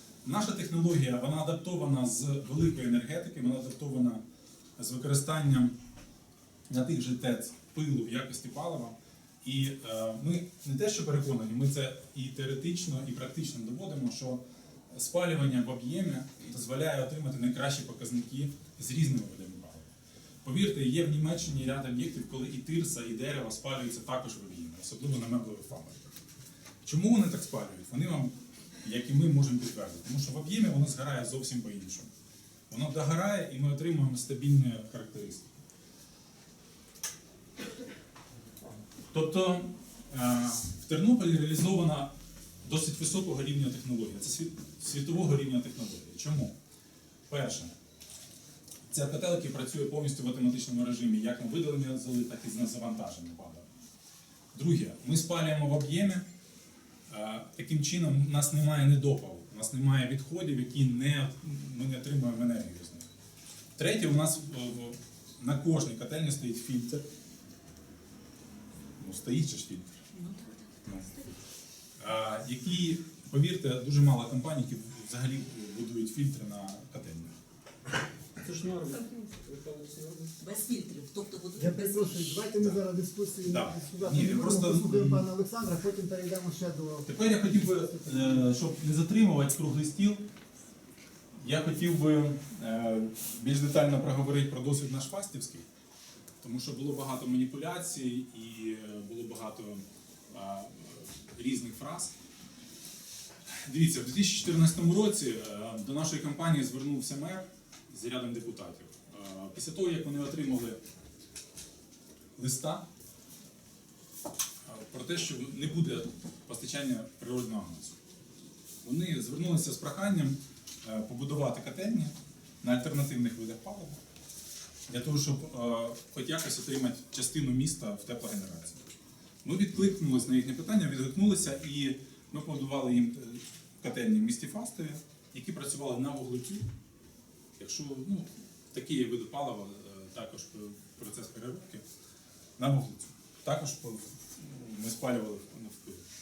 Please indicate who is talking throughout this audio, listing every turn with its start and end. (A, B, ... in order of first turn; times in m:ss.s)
0:00.2-0:04.2 A
0:04.8-0:05.7 A
0:06.7-0:14.4 A
0:14.9-0:19.9 A
0:20.4-0:26.1 A
0:26.8-0:32.1 A
0:32.7-0:35.5 A
0:39.1-0:42.1 A
0:42.6-0:46.5 A
0:47.3-0:47.7 A
0:48.9-0:53.7 A
0:54.5-0:56.2 A
0:57.1-1:03.1 A
1:03.8-1:07.0 A
1:09.0-1:10.0 A
1:10.2-1:10.6 B
1:10.8-1:11.3 A
1:12.0-1:17.4 A
1:18.4-1:20.5 C
1:20.4-1:22.1 B
1:21.6-1:27.2 D
1:23.4-1:25.3 A
1:27.1-1:30.2 A
1:31.4-1:35.6 A
1:36.4-1:42.1 A
1:43.6-1:50.8 A
1:52.4-1:52.9 A
1:54.6-1:58.0 A
1:58.8-2:04.0 A
2:04.9-2:08.8 A
2:09.4-2:16.7 A
2:17.6-2:21.8 A
2:22.6-2:26.0 A